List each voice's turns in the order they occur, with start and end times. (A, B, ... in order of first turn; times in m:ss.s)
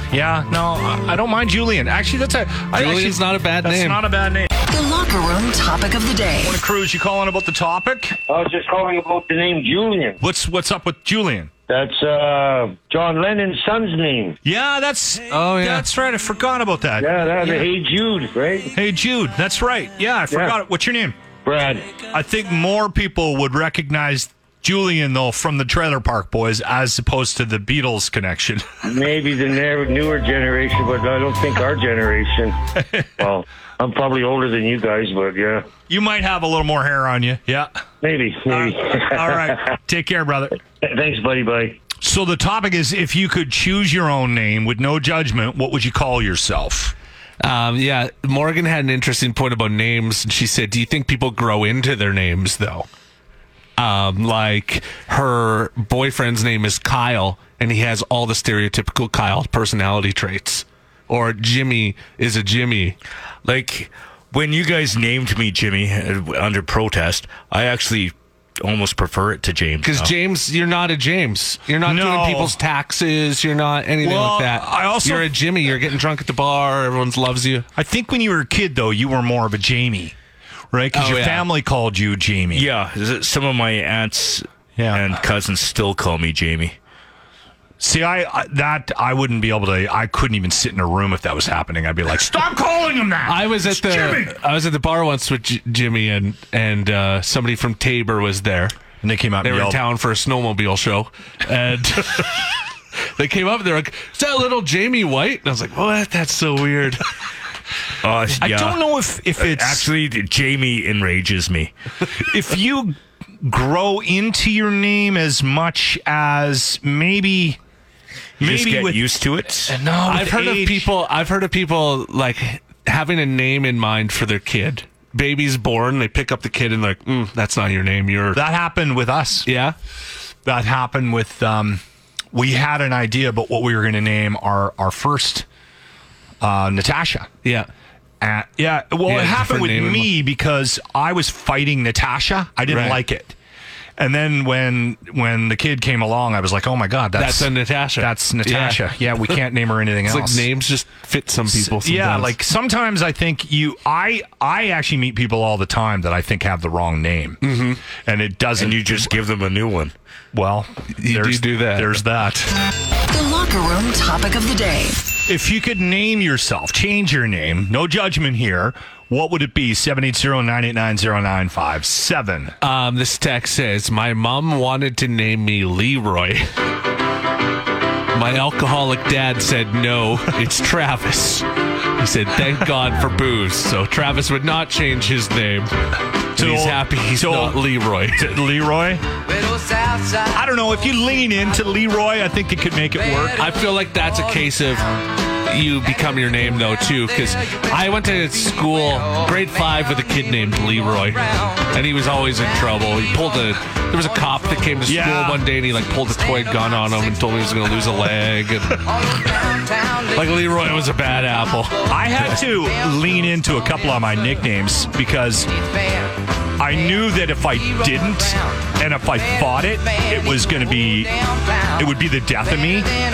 0:00.1-0:04.5 A
0:02.8-0:04.0 B
0:04.7-0:06.6 C
0:06.4-0:08.2 A
0:08.3-0:10.2 D
0:10.2-0:11.5 A
0:11.7-0:14.4 D
0:14.4-0:17.1 A
0:15.3-0:15.9 B
0:17.0-0:18.7 D
0:18.8-0:21.2 A
0:21.4-0:21.9 D
0:22.1-0:28.7 A
0:28.8-0:32.6 D
0:33.2-0:35.7 D
0:35.9-0:37.8 A
0:38.0-0:39.6 D
0:38.5-0:40.6 A
0:40.8-0:41.8 D
0:42.0-0:47.0 A
0:47.4-0:52.9 B
0:53.8-1:03.0 B
1:03.4-1:10.1 E
1:09.8-1:17.7 B
1:11.8-1:12.6 A
1:14.0-1:15.4 A
1:17.8-1:20.2 A
1:20.7-1:22.7 A
1:20.9-1:21.5 B
1:22.5-1:26.8 E
1:24.8-1:25.1 A
1:27.8-1:34.4 A
1:33.3-1:38.8 B
1:39.0-1:39.8 A
1:39.4-1:42.4 B
1:43.2-1:47.1 B
1:48.0-1:48.8 E
1:48.4-1:49.9 A
1:49.4-1:51.7 E
1:52.2-1:57.6 A
1:58.4-1:59.8 E
1:58.4-1:59.0 A
1:59.7-2:00.9 A
2:00.1-2:08.4 B
2:08.3-2:09.5 A
2:09.5-2:09.8 B
2:10.4-2:11.8 A
2:12.3-2:15.5 A
2:16.4-2:17.3 A
2:17.4-2:17.7 B
2:18.2-2:23.4 A
2:19.1-2:20.1 B
2:22.7-2:23.0 B
2:24.0-2:30.5 A
2:27.2-2:28.9 B
2:30.0-2:32.4 B
2:31.5-2:37.4 A
2:37.4-2:37.8 B
2:37.9-2:39.1 A
2:38.6-2:39.9 E
2:40.3-2:42.5 A
2:41.0-2:42.0 B
2:43.1-2:45.0 C
2:45.3-2:52.6 A
2:52.6-2:56.5 B
2:58.1-3:01.5 B
3:02.0-3:05.7 B
3:06.4-3:09.0 A
3:06.4-3:08.3 B
3:10.2-3:13.5 A
3:13.4-3:14.9 B
3:15.4-3:28.9 B
3:24.9-3:25.5 A
3:30.1-3:31.8 B
3:31.9-3:35.5 A
3:36.6-3:41.2 A
3:41.8-3:42.9 A